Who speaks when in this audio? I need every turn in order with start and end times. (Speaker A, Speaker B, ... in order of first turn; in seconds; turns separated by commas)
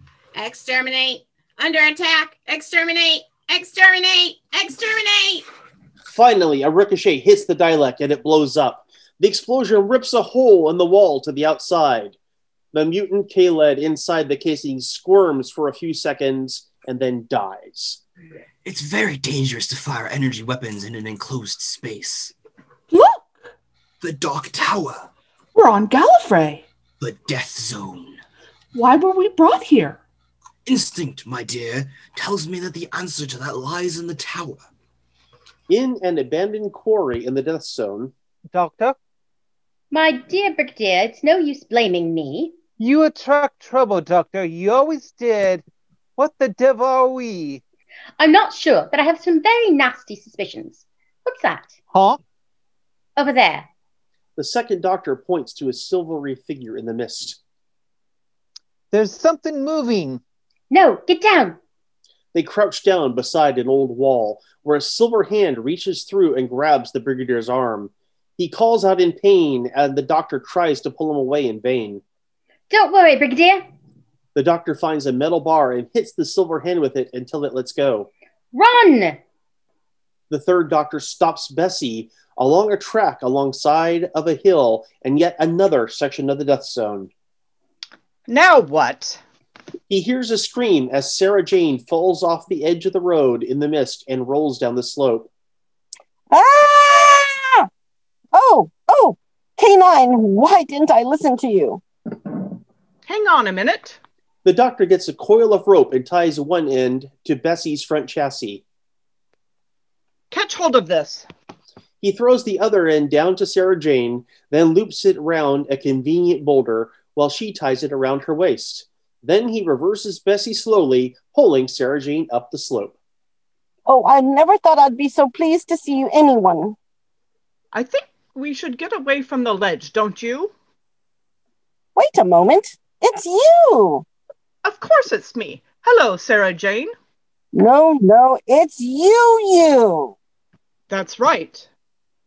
Speaker A: 0.6-5.3, Speaker B: 6.1-12.2, Speaker B: 12.7-18.0, Speaker C: 18.6-22.3, Speaker D: 22.9-23.3, Speaker C: 24.0-25.1, Speaker D: 25.6-26.7, Speaker C: 27.0-28.2, Speaker D: 28.7-30.0, Speaker C: 30.7-34.6, Speaker B: 35.7-38.1, Speaker E: 38.5-39.0, Speaker F: 39.9-42.5, Speaker E: 42.8-45.6, Speaker E: 46.2-47.6, Speaker F: 48.2-51.7, Speaker E: 51.9-52.2, Speaker F: 53.2-53.7, Speaker B: 54.4-57.4, Speaker E: 58.9-60.2, Speaker F: 60.7-61.6, Speaker B: 62.3-72.0, Speaker F: 72.7-73.7, Speaker B: 74.3-78.1, Speaker F: 78.5-79.2, Speaker B: 80.3-87.1, Speaker G: 88.3-89.2, Speaker B: 89.9-95.3, Speaker H: 96.3-97.7, Speaker H: 98.3-101.8, Speaker G: 103.1-104.0, Speaker B: 104.5-108.6, Speaker G: 110.3-111.3, Speaker B: 112.0-123.0, Speaker H: 123.9-126.8, Speaker G: 127.7-130.5, Speaker H: 132.0-134.1, Speaker G: 134.6-136.9, Speaker H: 137.5-140.2, Speaker G: 140.9-141.7